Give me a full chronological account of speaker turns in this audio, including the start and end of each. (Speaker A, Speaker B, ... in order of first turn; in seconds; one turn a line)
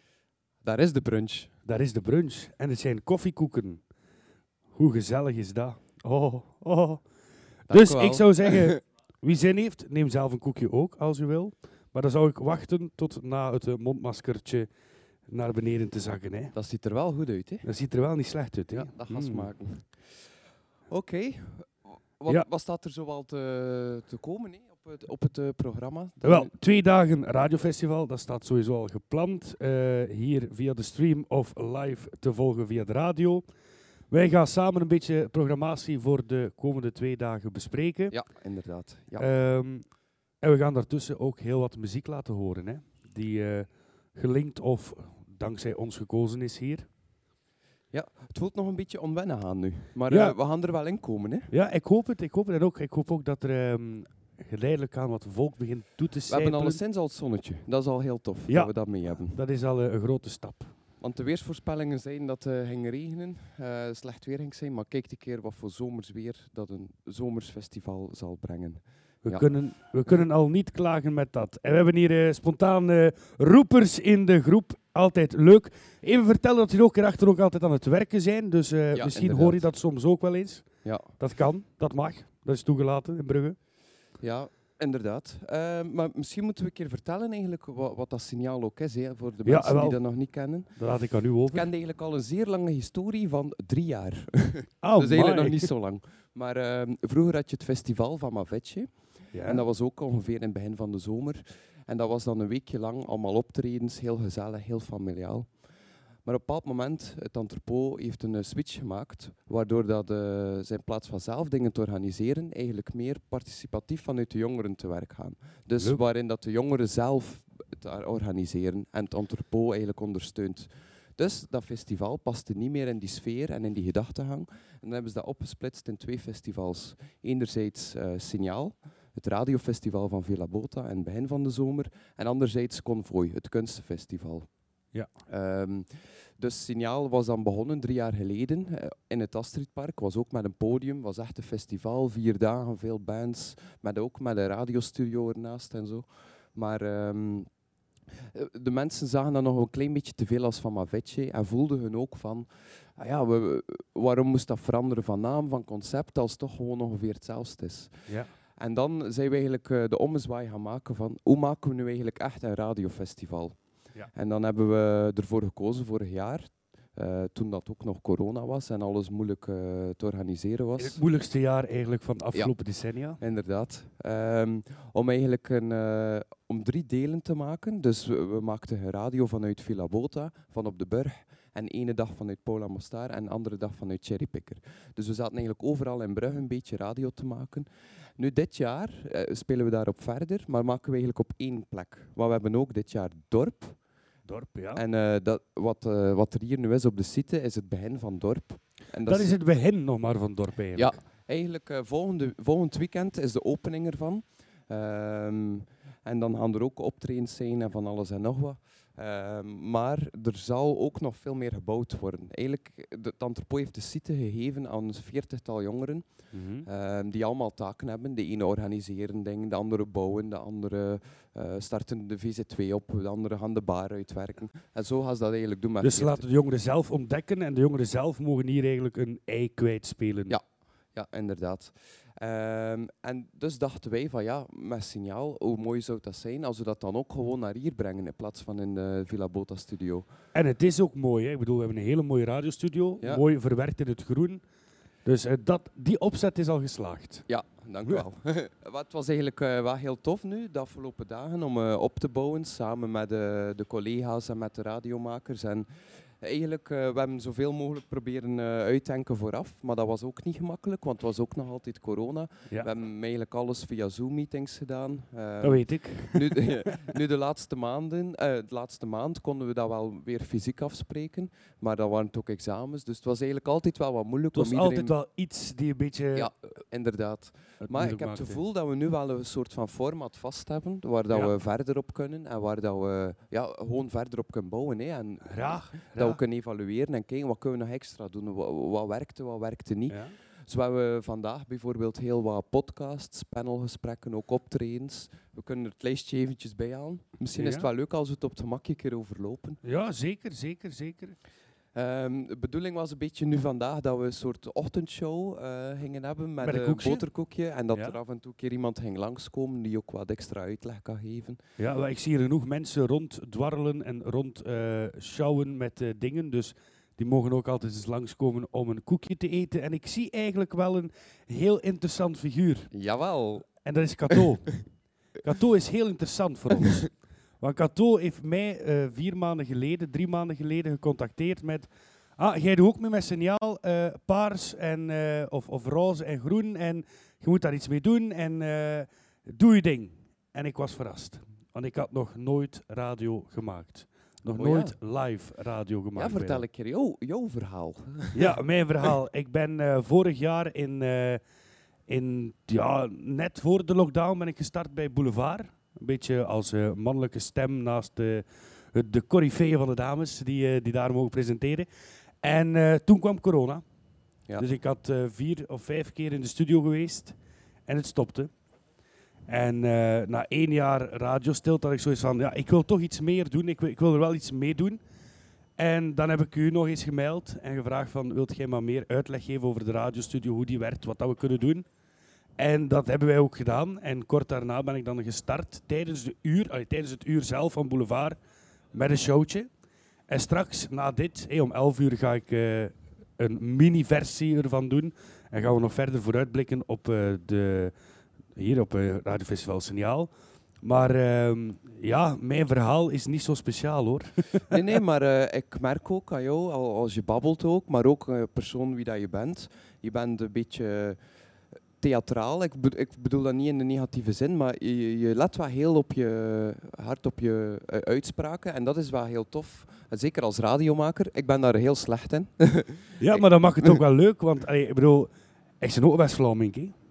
Speaker A: 0.6-1.5
Speaker B: 1.6-3.8
Speaker B: 4.8-7.0
Speaker A: 7.7-8.8
Speaker B: 7.7-14.7
Speaker B: 15.3-16.5
Speaker A: 16.5-17.6
Speaker B: 17.6-19.5
Speaker A: 18.7-20.0
Speaker A: 20.9-26.5
Speaker B: 26.2-33.4
Speaker B: 34.1-38.1
Speaker A: 38.1-39.2
Speaker B: 39.2-39.8
Speaker B: 40.4-46.9
Speaker A: 47.9-51.5
Speaker B: 50.1-50.4
Speaker B: 51.5-56.8
Speaker A: 56.3-59.4
Speaker B: 59.3-60.7
Speaker A: 61.0-69.5
Speaker B: 69.2-83.6
Speaker A: 78.9-79.6
Speaker A: 80.8-81.1
Speaker A: 84.2-90.8
Speaker B: 89.4-90.0
Speaker B: 90.8-91.7
Speaker A: 91.5-105.5
Speaker B: 94.8-95.7
Speaker B: 99.3-99.6
Speaker A: 106.2-134.5
Speaker A: 135.3-147.5
Speaker A: 148.2-163.6
Speaker B: 158.1-158.3
Speaker A: 164.1-171.0
Speaker B: 170.8-173.2
Speaker A: 173.2-193.8
Speaker B: 194.3-194.8
Speaker A: 194.7-199.3
Speaker B: 199.1-201.0
Speaker A: 200.8-226.2
Speaker B: 216.3-216.7
Speaker B: 225.8-230.3
Speaker A: 230.3-240.1
Speaker B: 240.3-244.4
Speaker B: 245.0-247.2
Speaker A: 247.3-274.9
Speaker B: 265.4-266.5
Speaker B: 274.3-276.3
Speaker A: 276.1-299.6
Speaker B: 277.6-278.4
Speaker B: 285.2-286.2
Speaker B: 289.9-290.1
Speaker B: 297.3-297.7
Speaker B: 299.6-301.2
Speaker A: 301.7-311.4
Speaker B: 306.4-307.0
Speaker B: 311.6-322.7
Speaker A: 322.7-323.5
Speaker B: 323.6-324.6
Speaker B: 325.2-326.9
Speaker B: 327.4-346.4
Speaker A: 344.3-344.8
Speaker A: 345.9-348.3
Speaker B: 348.1-351.2
Speaker B: 351.9-361.7
Speaker B: 362.2-363.6
Speaker B: 364.4-367.1
Speaker B: 367.7-368.3
Speaker B: 369.3-374.8
Speaker B: 375.6-381.6
Speaker B: 382.4-388.2
Speaker B: 388.7-389.5
Speaker B: 390.1-397.7
Speaker B: 398.4-400.1
Speaker B: 400.6-404.4
Speaker A: 404.5-411.0
Speaker A: 411.8-423.8
Speaker B: 423.0-426.7